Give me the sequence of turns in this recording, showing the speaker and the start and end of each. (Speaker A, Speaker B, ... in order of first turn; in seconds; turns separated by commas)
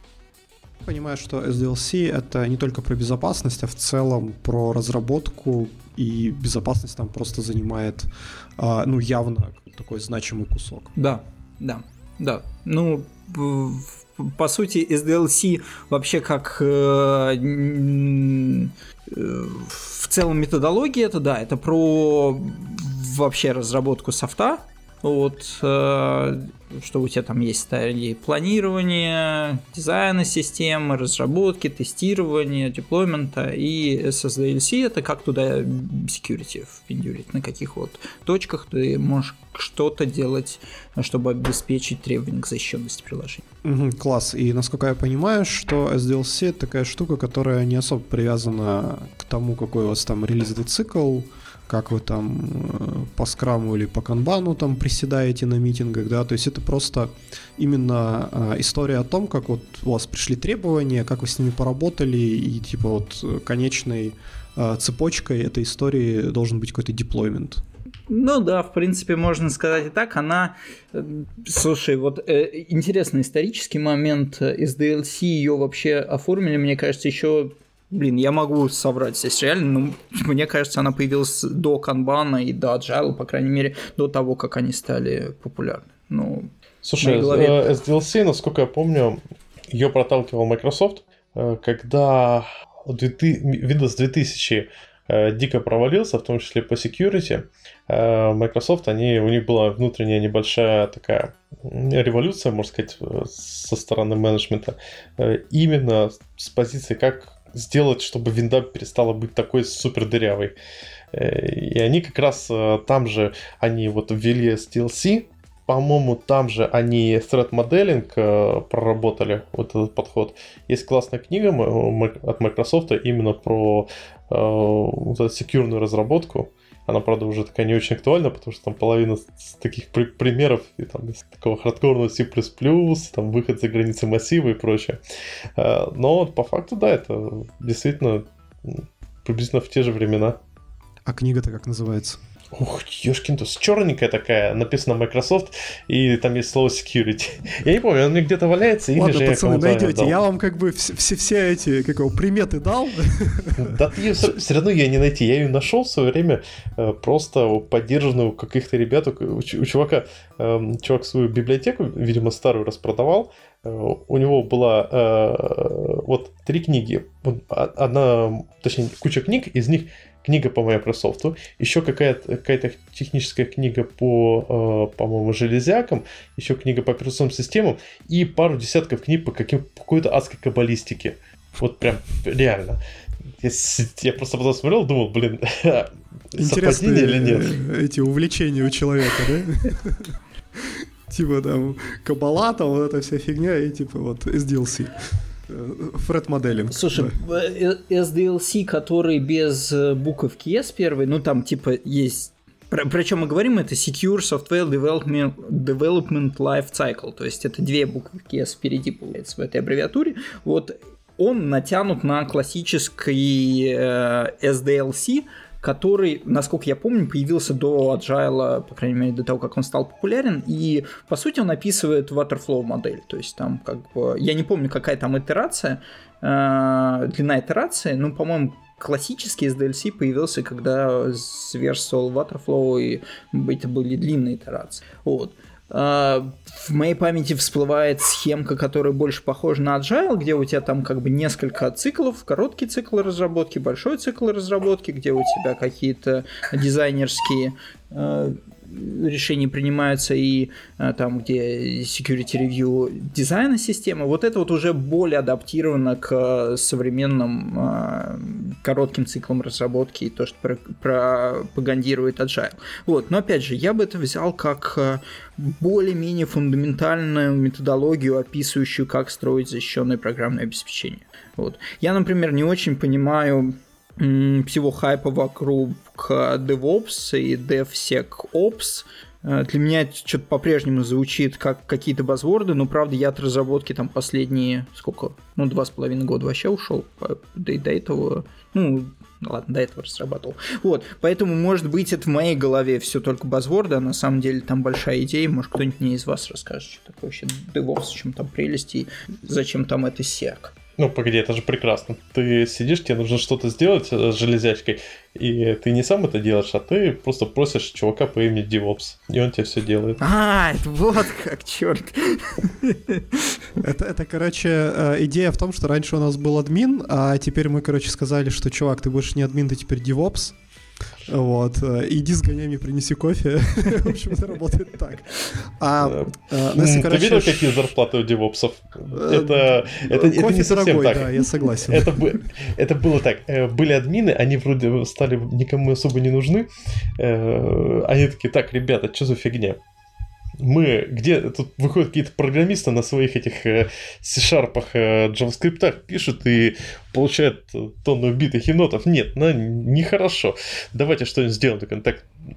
Speaker A: 0.8-10.9, Speaker B: 11.0-43.5, Speaker A: 43.6-67.6, Speaker B: 68.1-87.6, Speaker C: 86.8-89.2, Speaker C: 89.7-110.5, Speaker C: 111.1-135.0, Speaker C: 135.6-140.4, Speaker A: 141.1-142.2, Speaker C: 142.5-150.2, Speaker A: 149.0-153.8, Speaker C: 153.6-182.8, Speaker C: 183.4-187.6, Speaker A: 186.3-197.2, Speaker B: 196.7-300.5, Speaker C: 300.8-310.0, Speaker B: 310.0-313.4, Speaker A: 313.6-320.4, Speaker A: 321.1-327.7, Speaker C: 325.9-339.6, Speaker A: 328.9-332.1, Speaker C: 340.4-352.1